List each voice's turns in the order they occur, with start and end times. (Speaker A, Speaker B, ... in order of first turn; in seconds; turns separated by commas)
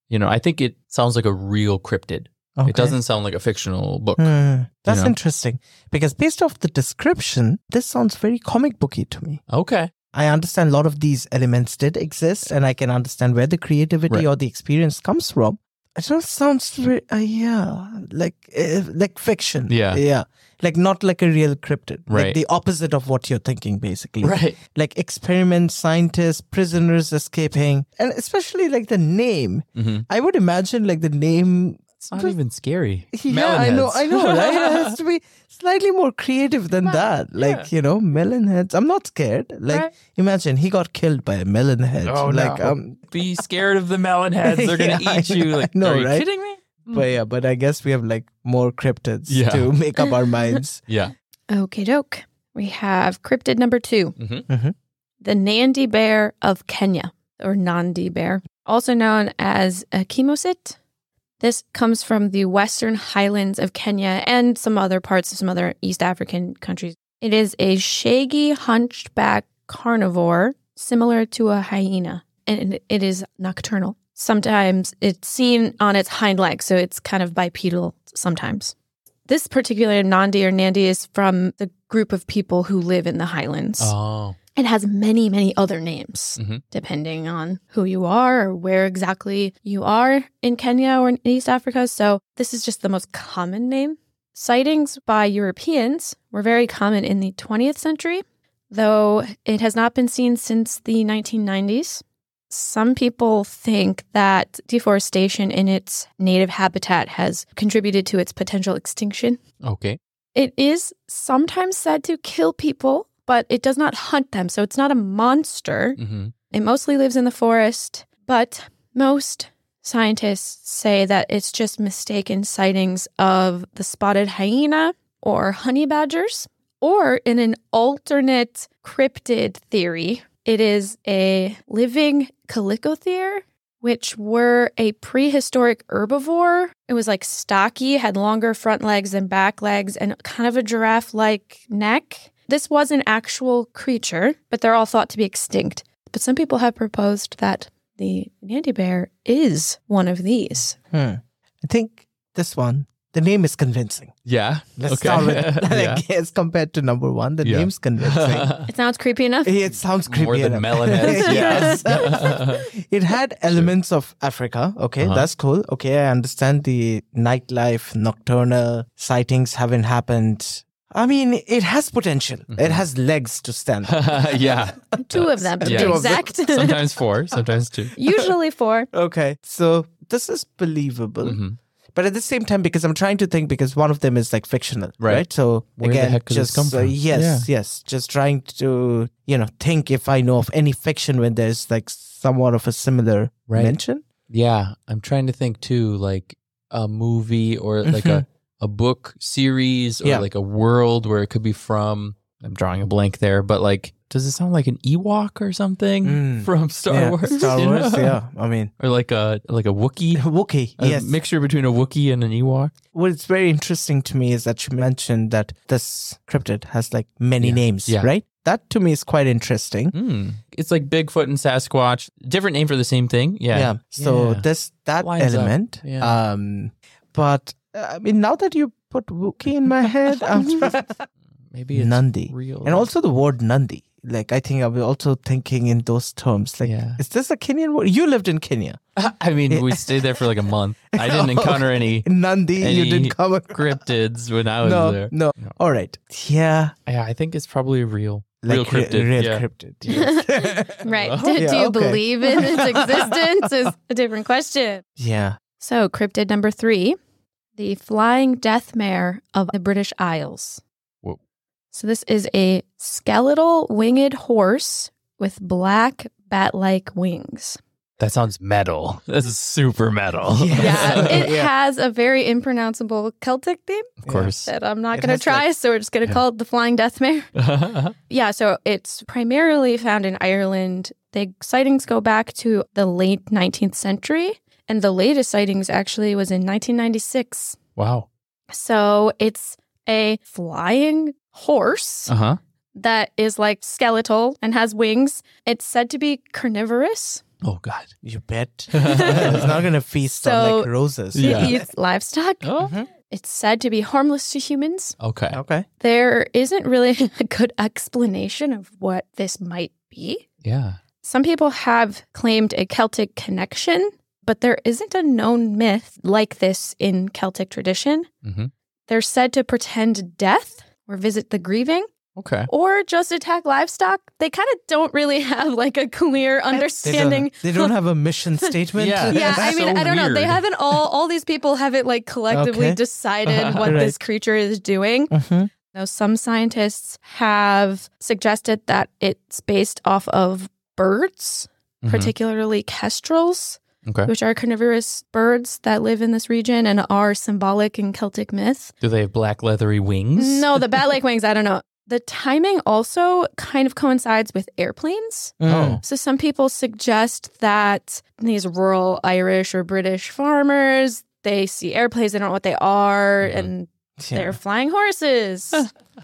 Speaker A: 0.1-4.3, Speaker B: 2.6-3.0, Speaker B: 4.2-9.4, Speaker A: 4.8-5.1, Speaker A: 9.5-9.9, Speaker B: 10.1-32.4, Speaker A: 19.7-20.0, Speaker A: 22.1-22.4, Speaker A: 24.2-24.6, Speaker A: 29.8-30.1, Speaker A: 32.0-35.0, Speaker B: 33.1-43.0, Speaker A: 37.4-37.7, Speaker A: 42.0-47.1, Speaker B: 44.4-46.2, Speaker B: 46.9-50.8, Speaker A: 49.3-49.7, Speaker A: 50.9-51.1, Speaker C: 51.5-54.1, Speaker A: 54.1-54.5, Speaker B: 54.5-54.7, Speaker C: 55.2-60.8, Speaker C: 61.4-78.7, Speaker C: 79.3-83.9, Speaker A: 83.8-84.4, Speaker C: 84.5-109.4, Speaker A: 86.3-86.6, Speaker A: 109.6-110.0, Speaker C: 110.3-115.9, Speaker A: 116.0-116.3, Speaker C: 116.5-150.7, Speaker B: 150.9-154.2, Speaker A: 154.2-156.0, Speaker B: 154.8-158.5, Speaker A: 157.4-158.7, Speaker C: 158.7-159.5, Speaker B: 159.4-176.3, Speaker A: 160.1-162.6, Speaker A: 165.0-165.3, Speaker A: 172.5-172.8, Speaker A: 173.8-178.0, Speaker C: 175.2-176.8, Speaker C: 178.0-178.9, Speaker B: 178.0-178.3, Speaker B: 178.9-181.4, Speaker A: 181.2-181.6, Speaker B: 181.9-194.0, Speaker A: 185.0-185.2, Speaker A: 185.8-187.5, Speaker A: 193.5-193.8, Speaker A: 194.3-208.2, Speaker B: 197.8-198.2, Speaker B: 206.0-208.7, Speaker A: 208.8-210.3, Speaker B: 210.1-211.2, Speaker A: 210.8-212.7, Speaker B: 212.9-219.9, Speaker A: 217.4-218.1, Speaker A: 219.9-224.4, Speaker B: 223.5-231.1, Speaker A: 225.0-226.2, Speaker A: 230.2-230.7, Speaker A: 231.5-232.9, Speaker B: 231.7-238.8, Speaker A: 236.6-237.0, Speaker A: 238.9-242.1, Speaker B: 239.5-240.2, Speaker B: 240.9-243.6, Speaker A: 242.6-245.6, Speaker B: 244.6-246.7, Speaker A: 246.9-249.4, Speaker B: 248.4-253.2, Speaker C: 249.9-254.8, Speaker A: 250.9-251.5, Speaker B: 255.0-255.4, Speaker C: 255.6-257.0, Speaker C: 257.6-260.6, Speaker C: 261.7-267.6, Speaker A: 268.0-271.3, Speaker B: 270.3-271.5, Speaker C: 270.6-273.9, Speaker A: 274.0-274.5, Speaker B: 274.0-274.3, Speaker C: 274.5-277.3, Speaker B: 274.9-275.4, Speaker A: 277.4-277.9, Speaker C: 278.1-287.6, Speaker A: 287.8-288.1, Speaker C: 288.5-292.1, Speaker A: 292.1-292.4, Speaker C: 292.8-297.2, Speaker A: 297.4-297.9, Speaker B: 298.0-301.6, Speaker A: 298.7-299.5, Speaker C: 300.2-300.7, Speaker A: 301.1-301.6, Speaker C: 301.2-302.4, Speaker A: 302.4-302.7, Speaker B: 302.6-302.9, Speaker C: 303.1-304.9, Speaker A: 305.0-305.4, Speaker B: 305.3-305.6, Speaker C: 305.8-310.2, Speaker A: 310.4-310.8, Speaker C: 311.0-318.1, Speaker A: 318.2-318.5, Speaker C: 318.9-321.9, Speaker A: 322.1-322.5, Speaker C: 322.6-327.7, Speaker B: 326.5-329.7, Speaker A: 328.7-330.8, Speaker C: 329.1-335.1, Speaker B: 332.3-332.8, Speaker A: 333.2-333.8, Speaker B: 333.6-334.0, Speaker B: 335.1-335.5, Speaker C: 335.7-341.5, Speaker A: 341.8-342.1, Speaker C: 342.0-343.6, Speaker A: 343.8-344.1, Speaker C: 344.2-348.7, Speaker A: 348.8-350.9, Speaker C: 350.2-355.3, Speaker B: 355.4-355.8, Speaker A: 355.5-355.8, Speaker C: 355.9-365.6, Speaker A: 363.2-363.5, Speaker B: 364.0-364.4